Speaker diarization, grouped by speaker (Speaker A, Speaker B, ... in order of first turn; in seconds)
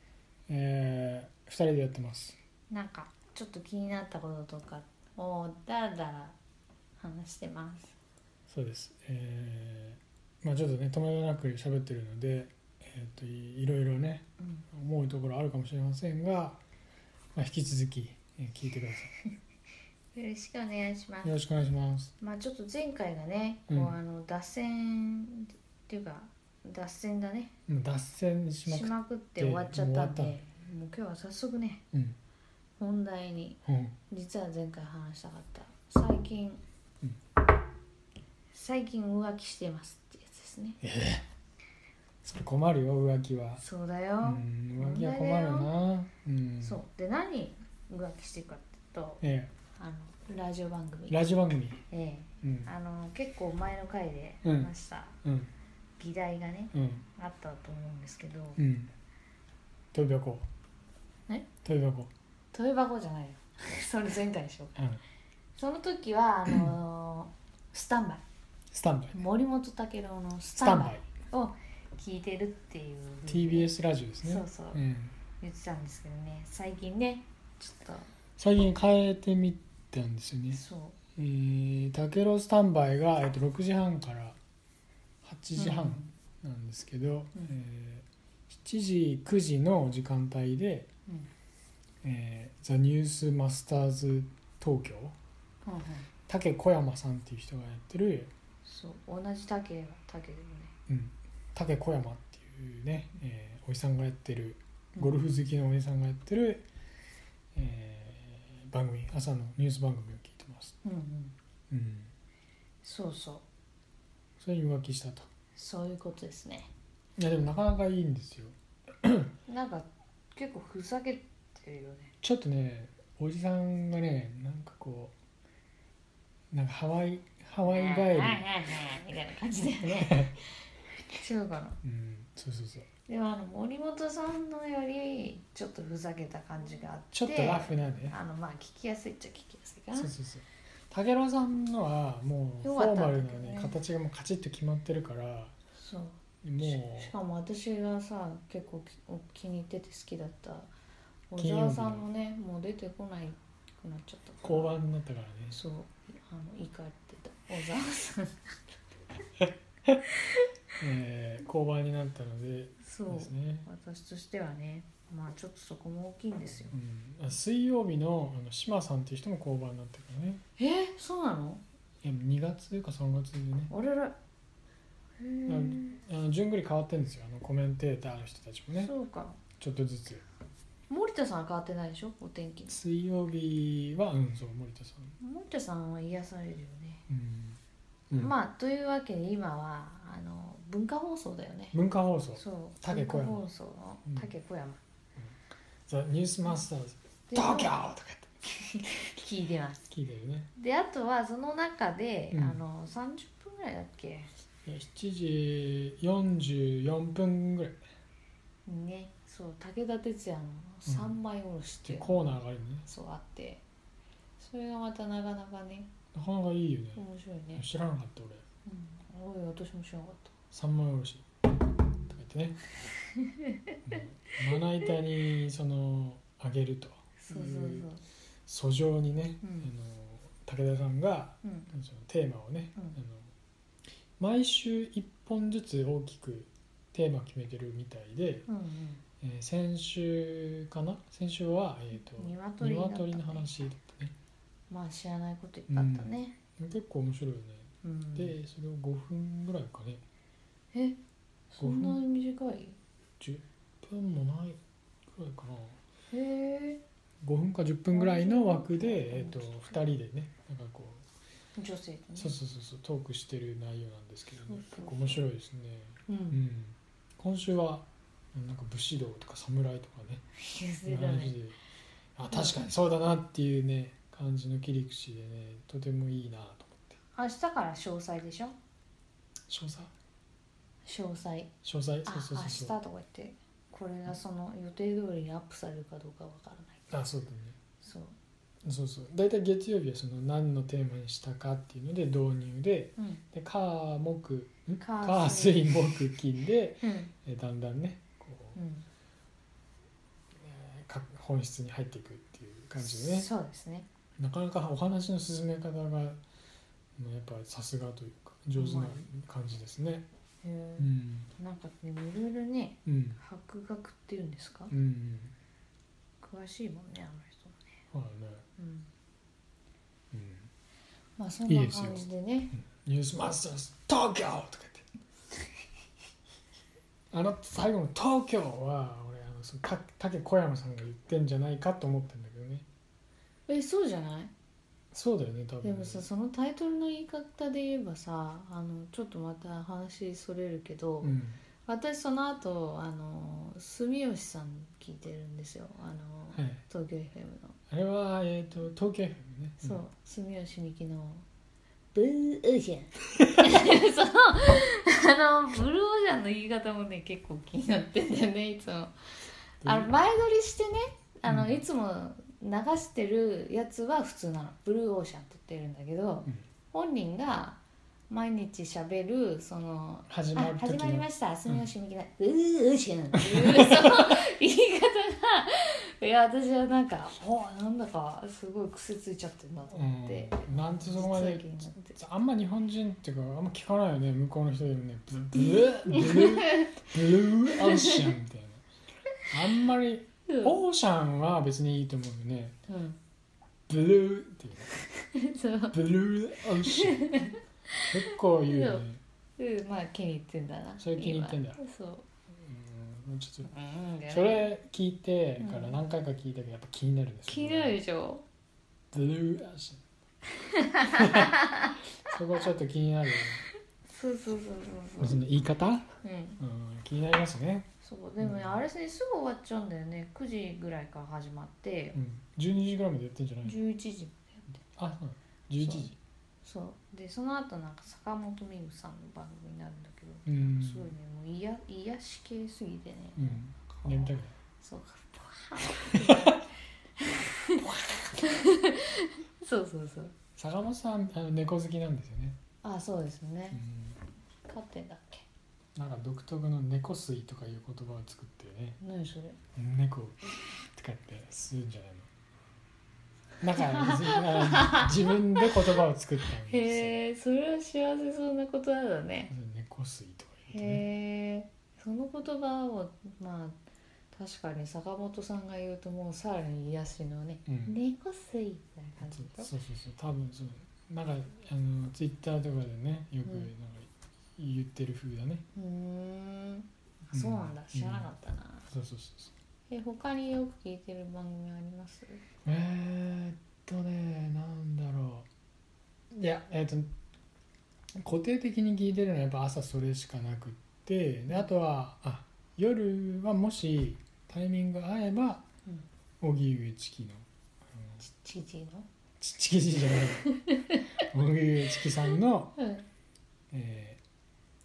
Speaker A: 0.5-2.4, 8.5-16.6, 17.3-19.1, 21.2-22.1, 23.7-23.9, 27.7-30.4, 31.9-32.2, 33.6-34.0, 40.8-41.2, 42.2-43.6, 44.2-46.8, 49.2-49.5, 51.1-51.8, 52.4-52.7, 54.4-54.7, 55.2-55.5, 56.7-57.0, 58.6-58.9, 59.9-60.5, 61.6-62.1, 64.8-65.0, 68.7-69.2, 70.6-71.1, 73.3-75.2, 78.4-80.6, 81.2-84.4, 85.2-90.9, 92.0-95.2, 96.3-98.3, 100.9-106.7, 107.5-110.8, 111.7-112.1, 114.4-115.3, 117.2-119.3, 122.2-125.1, 126.5-128.4, 129.8-130.4, 131.8-132.9, 137.1-138.2, 139.9-145.5, 146.4-147.1, 151.4-152.1, 154.4-155.6, 160.8-163.7, 166.7-170.4, 172.0-173.7, 175.5-178.9, 179.6-180.2, 182.7-185.2, 187.1-188.3, 191.7-193.5, 195.9-198.3, 199.9-200.5, 202.3-202.6, 204.6-207.8, 210.8-211.2, 211.8-212.9, 216.1-217.0, 217.5-218.4, 220.5-221.4, 222.1-222.6, 223.8-227.9, 228.5-233.3, 234.2-238.5, 239.2-244.1, 245.7-250.0, 251.6-252.0, 253.2-255.8, 257.2-261.0, 262.1-270.2, 270.8-271.6, 272.1-277.0, 279.5-279.9, 281.6-282.8, 286.9-287.6, 288.6-298.6, 300.3-303.3, 304.2-306.2, 306.9-310.1, 310.8-311.3, 312.9-313.2, 314.7-315.3, 317.9-318.4, 320.1-320.5, 321.5-324.9, 327.1-332.6, 334.9-336.1, 341.0-341.4, 346.3-346.6, 347.7-349.8, 359.6-359.9, 361.2-361.6, 370.1-371.6, 379.7-388.6, 389.3-392.6, 393.7-394.7, 395.7-397.1, 397.9-399.0, 400.8-401.6, 402.3-403.5, 404.1-407.8, 408.9-409.8, 410.9-411.4, 412.0-413.4, 415.0-418.6, 421.9-423.6, 424.8-426.0, 430.2-430.9, 433.2-434.3, 435.9-436.3, 440.4-442.4, 443.5-444.0, 445.7-448.8, 449.6-452.1, 453.4-457.0, 459.3-460.8, 467.5-467.8, 469.0-475.4, 477.1-478.1, 478.7-479.3, 482.4-485.3, 486.1-486.9, 488.0-495.4, 496.2-498.0, 499.2-500.3, 501.0-502.6, 503.5-504.0
Speaker B: 2.7-6.3, 7.0-7.9, 14.4-14.6, 20.1-21.4, 22.2-27.5, 28.7-31.8, 32.8-36.6, 38.5-40.8, 43.6-45.7, 46.6-49.2, 49.8-51.2, 51.9-55.2, 56.0-58.6, 62.5-64.8, 65.5-68.2, 69.1-73.7, 74.2-74.8, 75.4-78.1, 80.5-81.0, 85.5-86.1, 95.6-96.1, 98.6-100.7, 110.8-111.3, 112.8-113.4, 115.5-116.7, 119.5-122.1, 127.6-130.6, 131.1-131.8, 133.1-140.1, 142.6-143.8, 145.8-150.7, 151.3-154.8, 155.5-158.6, 162.8-166.8, 170.6-171.6, 173.7-174.2, 175.2-176.0, 178.7-179.4, 180.9-182.8, 185.2-187.0, 188.2-191.8, 192.4-194.8, 197.3-197.7, 198.6-199.9, 200.6-204.3, 208.7-213.6, 214.4-215.9, 216.9-217.6, 218.6-220.3, 223.2-223.8, 227.2-228.0, 229.4-229.7, 231.4-231.7, 238.5-239.0, 242.0-243.5, 244.7-246.4, 247.8-248.3, 250.7-251.0, 251.5-252.8, 256.1-256.8, 257.9-259.9, 261.6-262.3, 264.4-265.2, 266.1-266.4, 270.4-271.4, 272.3-272.6, 277.1-278.6, 280.8-281.5, 282.0-286.8, 287.8-288.1, 293.0-293.2, 294.8-295.7, 296.8-297.1, 298.6-298.9, 302.8-303.9, 308.6-309.0, 310.4-314.7, 316.2-317.8, 318.6-318.9, 321.2-322.5, 333.5-334.3, 335.6-347.6, 349.6-351.2, 351.9-358.9, 359.6-382.0, 385.9-386.8, 387.5-388.1, 390.2-390.6, 392.7-393.0, 395.0-395.8, 396.7-398.9, 399.4-402.0, 403.4-404.5, 405.4-405.8, 407.3-408.2, 410.4-412.1, 413.9-415.2, 416.0-416.4, 417.8-422.0, 423.4-424.6, 425.6-425.9, 426.4-440.1, 442.6-443.6, 444.4-445.2, 448.8-449.4, 453.6-455.8, 456.3-459.3, 460.5-463.6, 464.1-469.5, 475.5-478.7, 479.7-482.2, 498.0-498.9, 500.5-500.8, 502.6-502.9